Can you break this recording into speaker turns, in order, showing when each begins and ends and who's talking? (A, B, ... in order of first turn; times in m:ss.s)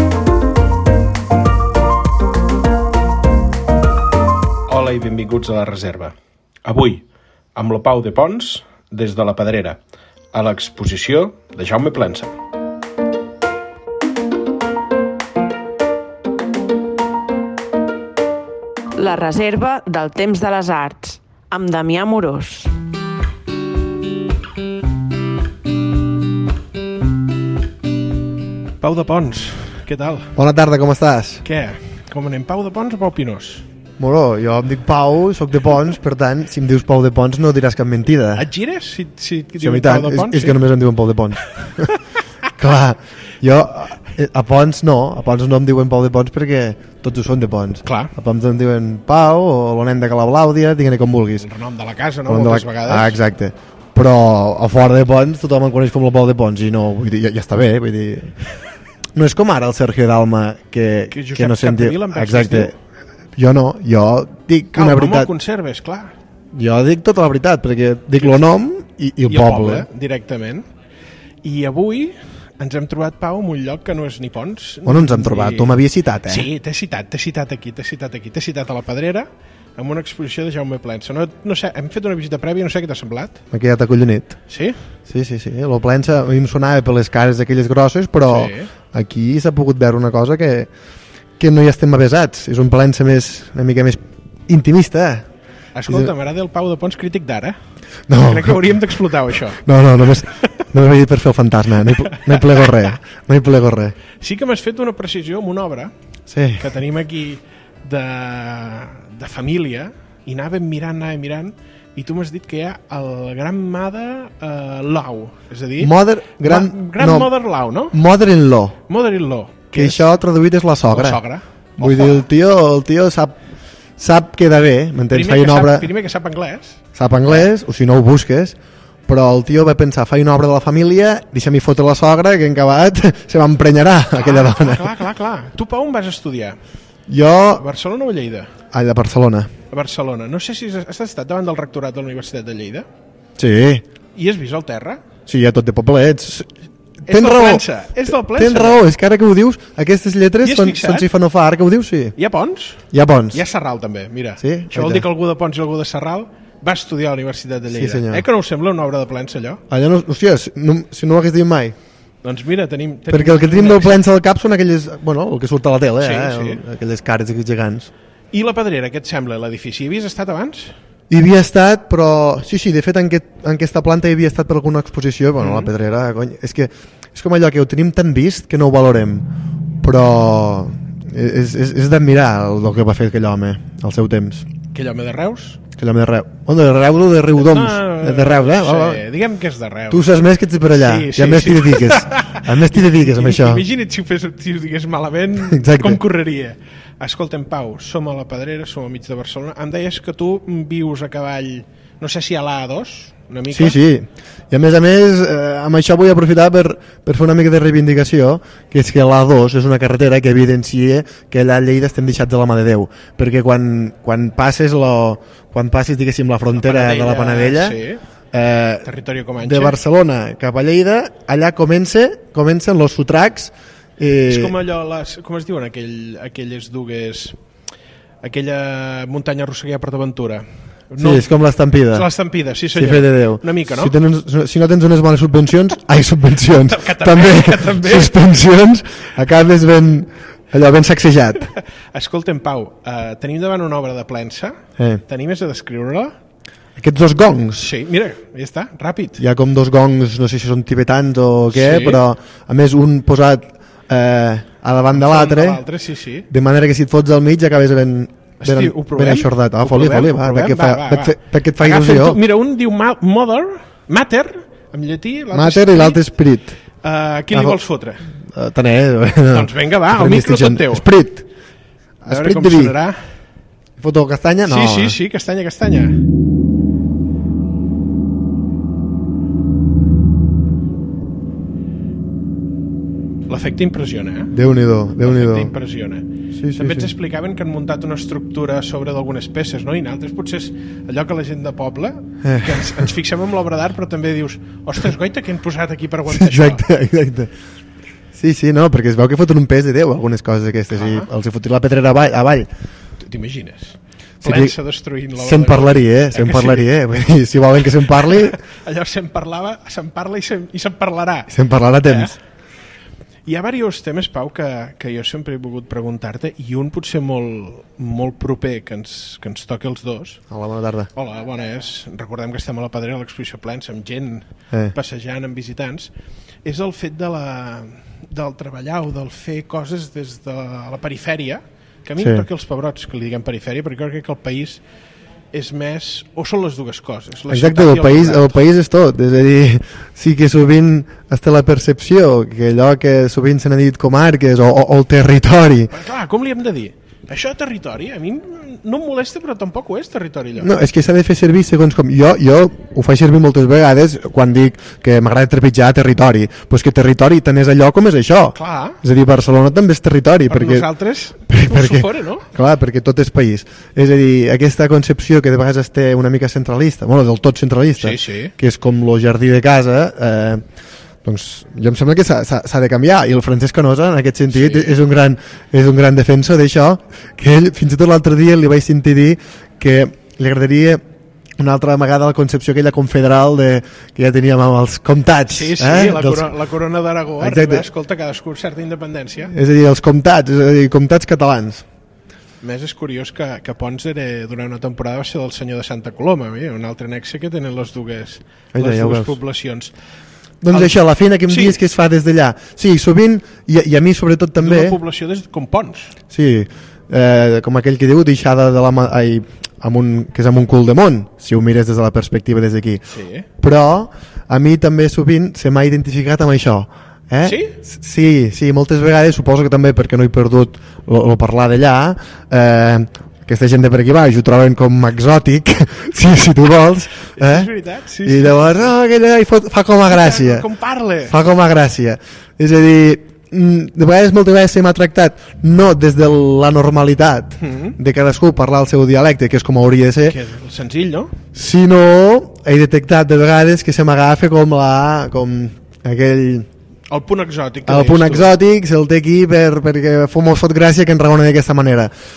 0:04.7-0:09.8 A
0:10.3-0:12.4 A
0:19.0-0:22.7 B
0:28.8-0:30.4 A
0:30.4-0:31.4 C
0:31.4-0:33.6 A
0:34.0-0:38.5 C
0:38.4-0:40.6 A
0:39.6-0:41.9 C
0:42.6-0:51.5 C
0:47.8-0:48.1 A
0:51.4-0:53.2 A
0:52.3-0:58.4 C
0:59.2-1:02.8 C
1:01.1-1:02.7 A
1:03.4-1:05.3 C
1:04.7-1:06.1 A
1:06.5-1:09.9 C
1:08.2-1:08.4 A
1:09.3-1:10.7 A
1:11.4-1:15.8 A
1:14.9-1:16.5 C
1:16.3-1:23.4 A
1:23.5-1:24.4 C
1:24.5-1:24.8 A
1:25.1-1:30.7 C
1:28.2-1:28.7 A
1:31.4-1:35.3 C
1:35.8-1:37.6 A
1:35.9-1:36.1 C
1:38.1-1:38.8 C
1:38.1-1:39.6 A
1:39.5-1:44.0 C
1:42.1-1:42.9 A
1:44.2-1:45.9 A
1:46.3-1:46.6 C
1:46.6-1:58.0 A
1:55.8-1:57.3 C
1:57.9-1:58.8 C
1:58.9-2:00.1 A
1:59.7-2:01.2 C
2:00.9-2:02.3 A
2:01.8-2:03.4 C
2:04.0-2:05.9 C
2:05.1-2:06.8 A
2:07.0-2:08.6 C
2:09.1-2:14.9 C
2:14.2-2:16.6 A
2:17.1-2:17.6 C
2:17.6-2:18.5 A
2:18.7-2:19.5 C
2:19.7-2:22.9 A
2:23.4-2:23.8 C
2:24.2-2:25.0 A
2:25.3-2:26.5 C
2:27.1-2:28.8 A
2:27.1-2:32.2 C
2:30.4-2:31.1 A
2:32.2-2:39.6 A
2:32.9-2:33.4 C
2:34.4-2:35.1 C
2:37.7-2:38.2 C
2:39.7-2:41.8 C
2:42.2-2:44.0 A
2:43.1-2:47.9 C
2:46.0-2:46.6 A
2:48.3-2:50.8 A
2:51.1-2:59.3 C
2:55.4-2:55.7 A
2:59.8-3:04.5 C
3:04.7-3:05.6 A
3:05.8-3:09.0 C
3:07.4-3:10.1 A
3:09.9-3:13.6 C
3:10.7-3:23.8 A
3:15.5-3:16.0 C
3:23.5-3:37.8 C
3:36.6-3:38.0 A
3:38.3-3:38.9 C
3:38.8-3:39.8 A
3:39.4-3:44.6 C
3:44.3-3:47.4 A
3:48.2-3:51.3 A
3:51.0-3:52.1 C
3:51.9-3:53.9 A
3:52.7-4:01.5 C
3:56.7-3:58.2 A
4:01.5-4:06.2 A
4:04.8-4:05.0 C
4:06.8-4:07.7 C
4:07.6-4:09.2 A
4:09.2-4:15.6 C
4:11.5-4:12.0 A
4:14.9-4:16.3 A
4:16.3-4:22.2 C
4:18.4-4:26.0 A
4:25.3-4:26.6 C
4:26.8-4:28.1 A
4:27.3-4:27.6 C
4:28.3-4:31.3 C
4:29.3-4:30.9 A
4:32.0-4:32.8 C
4:32.1-4:33.0 A
4:33.8-4:35.0 C
4:34.4-4:36.0 A
4:43.3-4:44.3 A
4:44.3-4:45.5 C
4:45.0-4:56.7 A
4:46.4-4:46.9 C
4:52.2-4:52.8 C
4:56.1-4:57.3 C
4:58.1-5:02.5 C
5:00.7-5:01.1 A
5:03.0-5:06.7 A
5:04.2-5:04.6 C
5:05.2-5:08.4 C
5:07.9-5:11.3 A
5:11.3-5:12.2 C
5:11.8-5:12.2 A
5:13.3-5:20.2 A
5:20.3-5:20.9 C
5:21.0-5:25.9 A
5:26.4-5:34.6 A
5:32.0-5:32.2 C
5:35.3-5:38.4 A
5:37.3-5:45.7 C
5:45.7-5:50.5 A
5:50.4-6:00.7 C
5:58.3-5:58.8 A
6:00.3-6:02.3 A
6:01.3-6:10.4 C
6:07.8-6:08.3 A
6:11.0-6:20.8 C
6:14.3-6:14.8 A
6:21.4-6:26.3 C
6:25.3-6:29.3 A
6:27.2-6:27.7 C
6:29.3-6:31.6 C
6:32.4-6:39.7 A
6:38.5-6:39.2 C
6:40.4-6:44.8 C
6:41.3-6:41.6 A
6:44.4-6:46.0 A
6:46.1-6:52.8 C
6:52.9-6:53.3 A
6:53.4-7:07.5 C
6:57.2-6:57.6 A
7:07.2-7:08.7 A
7:08.0-7:10.5 C
7:09.9-7:11.2 A
7:11.1-7:20.2 C
7:17.4-7:17.8 A
7:20.0-7:21.2 A
7:21.3-7:26.5 C
7:26.9-7:28.3 A
7:27.7-7:31.9 C